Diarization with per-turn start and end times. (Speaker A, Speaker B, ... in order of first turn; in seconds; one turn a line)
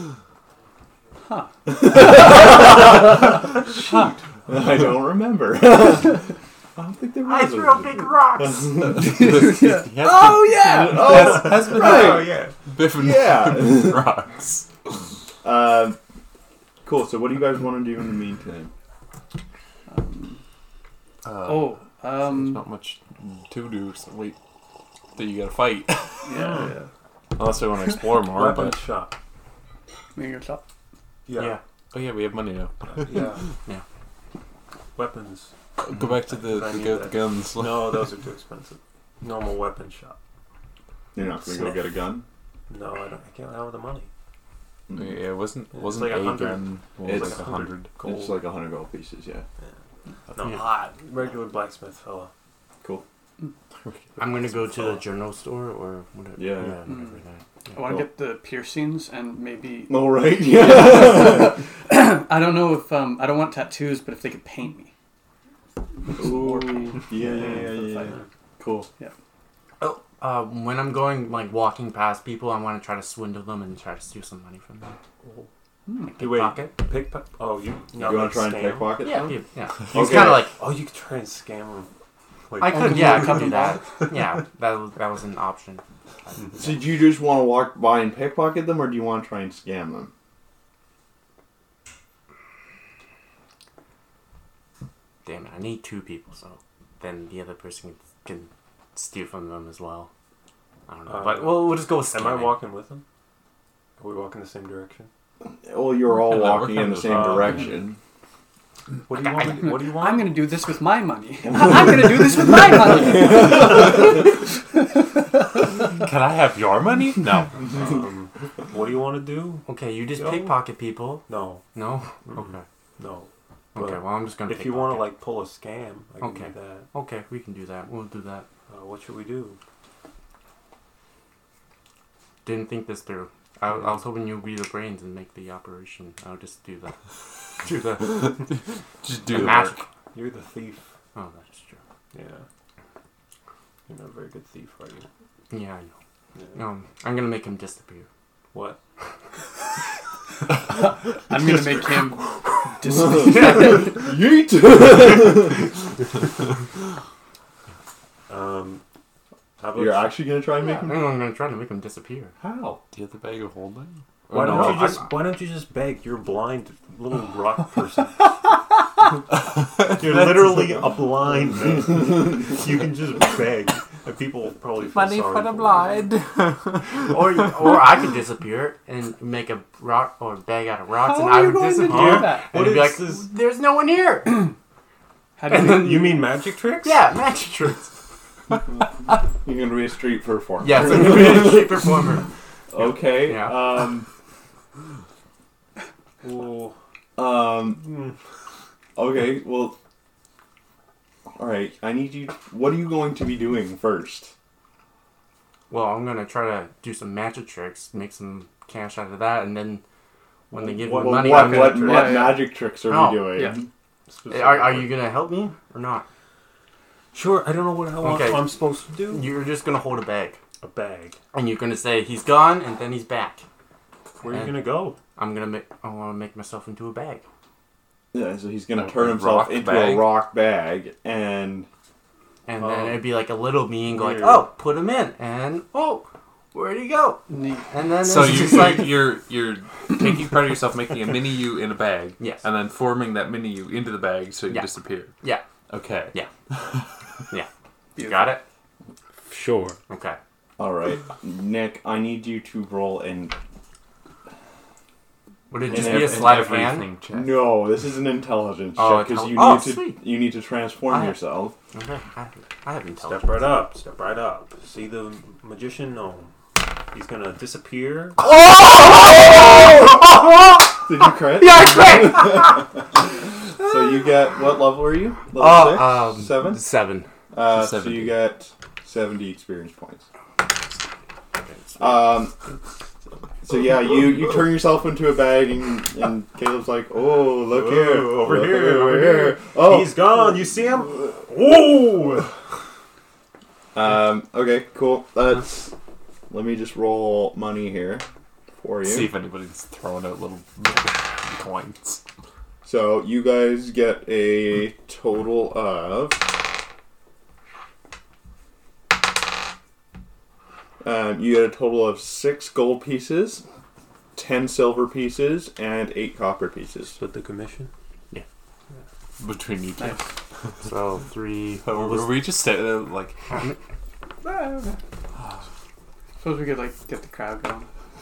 Speaker A: 1.3-2.5
Speaker B: 1.7-6.2
Speaker B: 6.8-9.6
Speaker C: 7.2-8.8
Speaker D: 8.9-14.7
Speaker A: 9.0-11.7
Speaker B: 10.6-12.3
Speaker E: 11.1-12.6
Speaker B: 12.9-14.1
Speaker B: 15.4-16.0
Speaker B: 16.9-18.7
Speaker A: 19.9-20.4
Speaker D: 21.2-24.4
Speaker A: 21.4-22.6
Speaker D: 25.1-26.5
Speaker A: 26.2-26.9
Speaker E: 26.3-26.8
Speaker D: 27.4-28.8
Speaker E: 28.2-29.2
Speaker A: 30.1-30.6
Speaker E: 31.3-31.6
Speaker C: 31.3-31.6
Speaker D: 31.9-33.4
Speaker E: 32.8-33.4
Speaker E: 35.0-35.5
Speaker D: 35.8-38.1
Speaker E: 36.4-40.2
Speaker B: 41.1-42.3
Speaker E: 42.7-44.1
Speaker B: 44.9-45.2
Speaker D: 44.9-47.9
Speaker E: 45.7-48.4
Speaker B: 47.1-49.5
Speaker E: 50.3-52.3
Speaker D: 53.9-54.2
Speaker C: 54.2-57.7
Speaker B: 56.4-56.8
Speaker A: 56.9-57.2
Speaker A: 57.7-64.9
Speaker B: 59.9-61.6
Speaker A: 66.1-68.2
Speaker B: 66.2-68.9
Speaker C: 69.8-75.0
Speaker E: 75.2-75.5
Speaker C: 76.1-76.7
Speaker E: 76.2-79.1
Speaker B: 78.0-79.4
Speaker C: 79.0-80.6
Speaker B: 79.9-80.5
Speaker E: 79.9-81.9
Speaker E: 82.5-84.2
Speaker C: 82.6-86.7
Speaker A: 82.7-83.8
Speaker E: 86.4-86.6
Speaker B: 86.6-90.1
Speaker C: 95.2-100.1
Speaker C: 100.9-102.6
Speaker E: 101.1-103.0
Speaker E: 104.0-105.1
Speaker B: 105.6-108.0
Speaker D: 106.4-106.8
Speaker C: 106.6-107.4
Speaker E: 107.0-107.7
Speaker E: 109.1-110.4
Speaker C: 109.3-109.6
Speaker A: 109.4-115.0
Speaker B: 112.8-114.1
Speaker D: 115.9-117.9
Speaker E: 117.7-120.6
Speaker C: 119.7-122.6
Speaker E: 121.3-121.6
Speaker E: 123.0-126.9
Speaker C: 123.8-125.2
Speaker C: 126.2-128.5
Speaker E: 128.7-129.6
Speaker C: 132.4-137.0
Speaker C: 137.6-138.5
Speaker D: 138.0-138.5
Speaker D: 139.0-139.8
Speaker C: 139.3-139.8
Speaker E: 140.1-140.9
Speaker C: 141.2-141.8
Speaker E: 142.1-142.4
Speaker E: 143.9-145.1
Speaker C: 145.5-145.9
Speaker E: 146.3-146.6
Speaker C: 146.5-148.1
Speaker E: 148.5-148.8
Speaker A: 150.7-154.1
Speaker B: 152.8-155.7
Speaker E: 158.3-158.8
Speaker E: 159.6-160.2
Speaker B: 159.7-161.1
Speaker C: 160.7-162.3
Speaker B: 162.4-162.8
Speaker D: 162.9-165.0
Speaker E: 164.3-168.3
Speaker E: 169.8-176.0
Speaker D: 174.8-177.6
Speaker C: 177.1-184.5
Speaker A: 181.0-182.5
Speaker E: 181.8-183.3
Speaker A: 185.4-186.1
Speaker C: 185.5-186.3
Speaker E: 185.5-187.1
Speaker C: 186.8-187.9
Speaker B: 189.4-192.0
Speaker C: 190.6-192.3
Speaker B: 192.7-194.1
Speaker C: 192.8-193.7
Speaker E: 196.2-196.8
Speaker B: 197.2-197.9
Speaker E: 197.7-198.1
Speaker B: 199.0-199.8
Speaker B: 201.4-204.3
Speaker C: 205.7-209.8
Speaker C: 210.5-212.3
Speaker E: 210.5-212.1
Speaker B: 210.8-213.7
Speaker A: 211.9-212.5
Speaker C: 212.9-213.5
Speaker E: 214.1-215.0
Speaker C: 214.3-216.1
Speaker E: 217.1-219.3
Speaker C: 218.0-220.4
Speaker E: 220.6-221.2
Speaker C: 221.3-223.4
Speaker E: 224.2-225.0
Speaker C: 224.2-227.2
Speaker B: 228.1-231.7
Speaker D: 228.7-230.2
Speaker C: 232.5-239.0
Speaker E: 232.6-233.1
Speaker E: 233.8-234.5
Speaker A: 237.3-237.7
Speaker D: 238.0-245.1
Speaker C: 242.2-242.5
Speaker C: 244.5-245.4
Speaker D: 245.7-246.9
Speaker C: 247.3-248.4
Speaker A: 248.0-248.4
Speaker E: 249.3-249.8
Speaker D: 249.3-249.8
Speaker C: 249.9-250.2
Speaker B: 250.6-253.3
Speaker C: 255.5-256.9
Speaker D: 255.6-257.6
Speaker B: 255.7-261.6
Speaker C: 258.8-260.1
Speaker C: 260.9-261.2
Speaker C: 261.7-263.7
Speaker E: 263.0-266.3
Speaker E: 266.9-268.2
Speaker C: 268.2-272.7
Speaker B: 270.8-272.8
Speaker B: 273.6-276.6
Speaker C: 275.3-277.1
Speaker B: 277.3-280.1
Speaker D: 277.4-278.3
Speaker C: 281.4-282.0
Speaker B: 281.8-282.4
Speaker B: 283.4-290.3
Speaker E: 287.4-292.3
Speaker B: 293.7-295.7
Speaker B: 296.3-298.1
Speaker B: 298.6-299.2
Speaker D: 298.8-302.0
Speaker B: 302.6-306.4
Speaker B: 310.8-313.4
Speaker B: 314.1-317.0
Speaker E: 316.9-317.7
Speaker D: 319.2-320.0
Speaker A: 319.8-320.1
Speaker C: 320.6-322.2
Speaker D: 321.7-323.2
Speaker C: 323.3-323.6
Speaker A: 324.2-324.8
Speaker A: 326.2-327.7